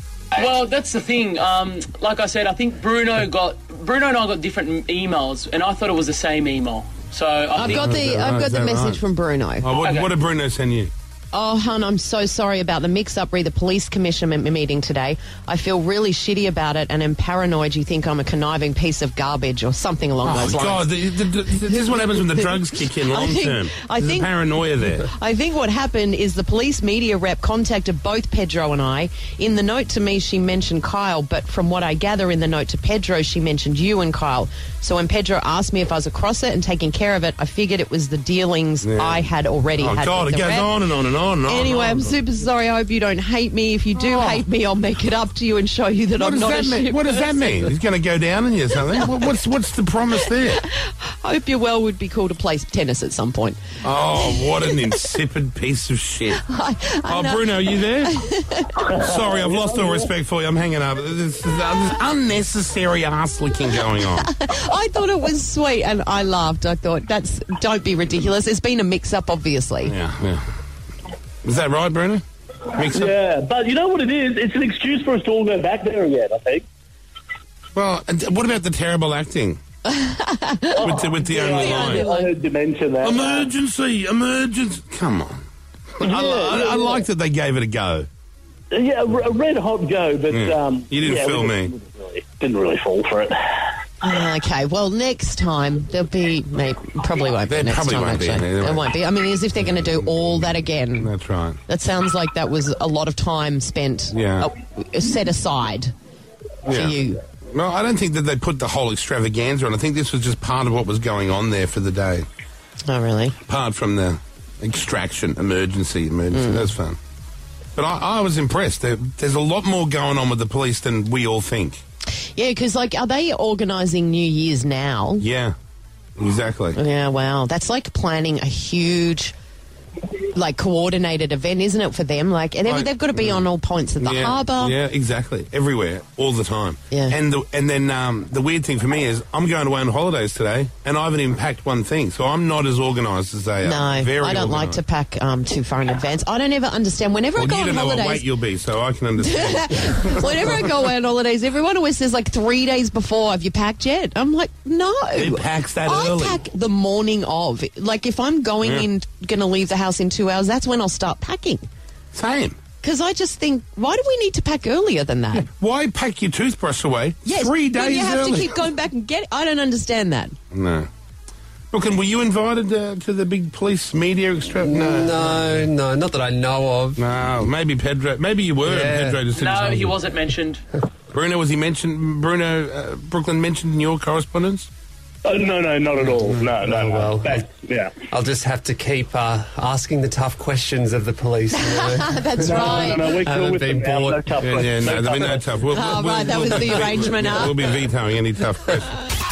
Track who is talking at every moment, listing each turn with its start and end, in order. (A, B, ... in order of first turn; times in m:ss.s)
0:00.3-0:07.9 A
0:07.6-0:09.7 B
0:07.7-0:09.0 C
0:09.6-0:10.9 C
0:09.7-0:10.1 A
0:11.3-0:40.7 B
0:20.2-0:25.1 C
0:38.8-0:39.2 C
0:39.8-0:42.1 C
0:41.4-0:47.7 B
0:44.0-0:44.4 C
0:46.2-0:50.6 C
0:48.9-0:49.2 B
0:50.3-0:53.6 B
0:53.8-0:56.4 C
0:54.1-0:54.9 B
0:56.3-0:58.9 B
0:57.0-0:58.1 C
0:58.8-0:59.6 D
0:58.9-1:04.3 C
1:03.9-1:09.9 B
1:09.8-1:10.4 C
1:11.4-1:13.1 C
1:12.8-1:16.6 D
1:17.7-1:19.6 C
1:19.9-1:22.3 B
1:20.7-1:23.5 D
1:20.8-1:22.1 C
1:23.0-1:25.4 C
1:26.0-1:28.1 C
1:26.0-1:27.0 D
1:28.7-1:33.6 D
1:30.3-1:31.7 C
1:34.0-1:41.1 B
1:37.4-1:38.9 C
1:40.0-1:41.6 C
1:41.7-1:45.9 B
1:44.1-1:44.5 C
1:46.7-1:46.9 C
1:46.7-1:47.2 B
1:47.5-1:52.2 C
1:52.8-1:53.4 B
1:53.4-1:57.0 C
1:56.3-1:56.7 B
1:57.8-2:01.8 C
2:02.4-2:05.2 B
2:05.2-2:05.5 C
2:06.2-2:06.8 C
2:06.7-2:09.3 B
2:10.3-2:14.8 B
2:12.6-2:13.4 C
2:14.0-2:24.8 C
2:16.9-2:17.2 B
2:23.6-2:28.2 B
2:27.3-2:30.6 C
2:29.2-2:41.6 B
2:35.1-2:36.4 C
2:42.1-2:42.6 C
2:42.8-2:45.5 B
2:45.3-2:48.6 C
2:47.2-2:50.4 B
2:50.5-2:50.9 C
2:51.7-2:55.6 C
2:54.6-2:57.0 E
2:57.0-2:59.9 C
2:58.6-2:59.6 E
2:59.3-3:00.6 A
3:01.1-3:04.7 C
3:05.2-3:08.0 D
3:06.0-3:07.5 E
3:08.1-3:14.9 E
3:11.5-3:13.2 B
3:12.4-3:15.6 D
3:14.4-3:18.9 C
3:15.7-3:17.6 B
3:16.5-3:17.4 E